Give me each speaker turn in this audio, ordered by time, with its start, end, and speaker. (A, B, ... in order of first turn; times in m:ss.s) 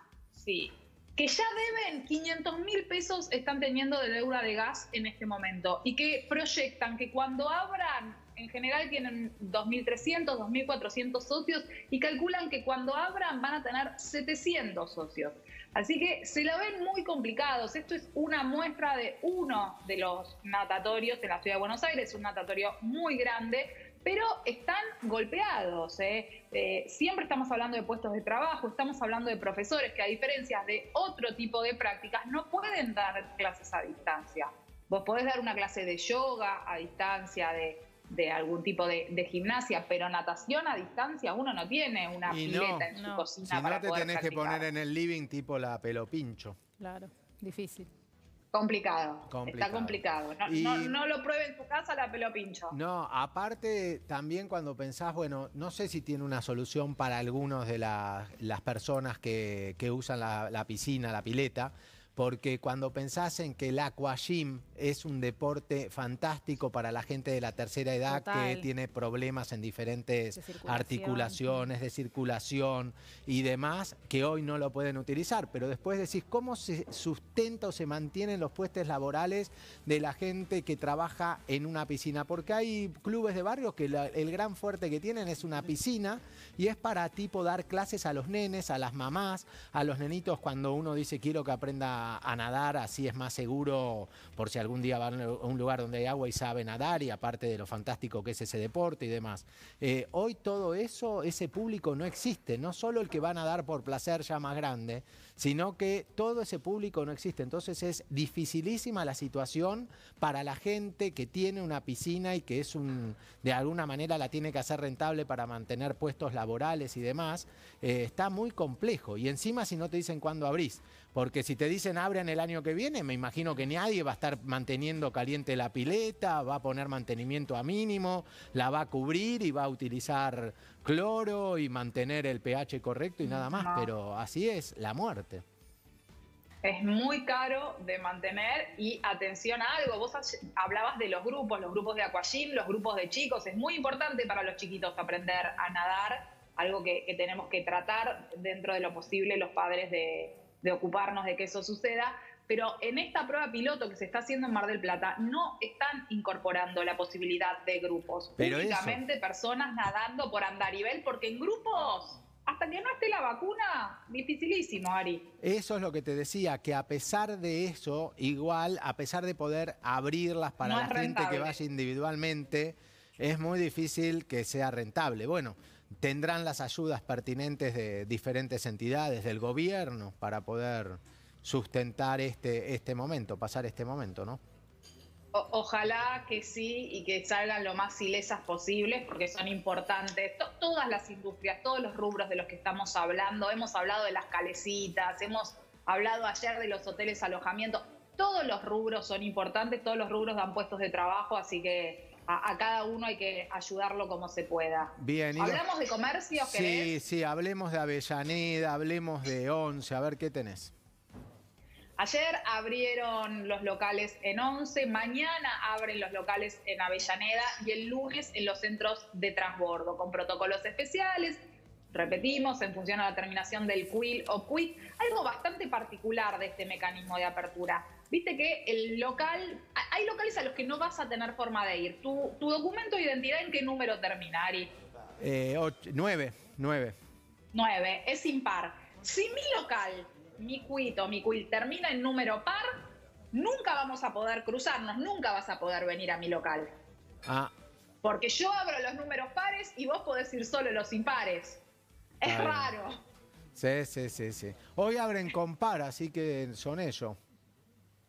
0:00.3-0:44.6 A
0:42.3-0:42.9 B
0:43.0-0:43.3 C
0:43.4-0:46.6 B
0:46.8-0:47.9 C
0:48.5-0:52.8 A
0:49.3-0:51.0 B
0:52.7-2:15.4 B
1:08.1-1:08.6 C
1:10.4-1:11.6 C
2:13.5-2:13.9 A
2:16.6-2:45.3 A
2:38.4-2:39.0 B
2:45.4-3:04.4 B
2:50.6-2:51.6 A
3:05.3-3:26.9 A
3:25.0-3:25.6 B
3:26.4-3:30.7 B
3:32.0-3:41.4 A
3:41.9-3:54.7 A
3:55.2-3:57.0 B
3:57.5-4:06.7 A
4:07.3-4:07.5 B
4:08.0-4:11.6 A
4:12.2-4:13.0 A
4:12.2-4:12.7 B
4:13.6-4:17.2 B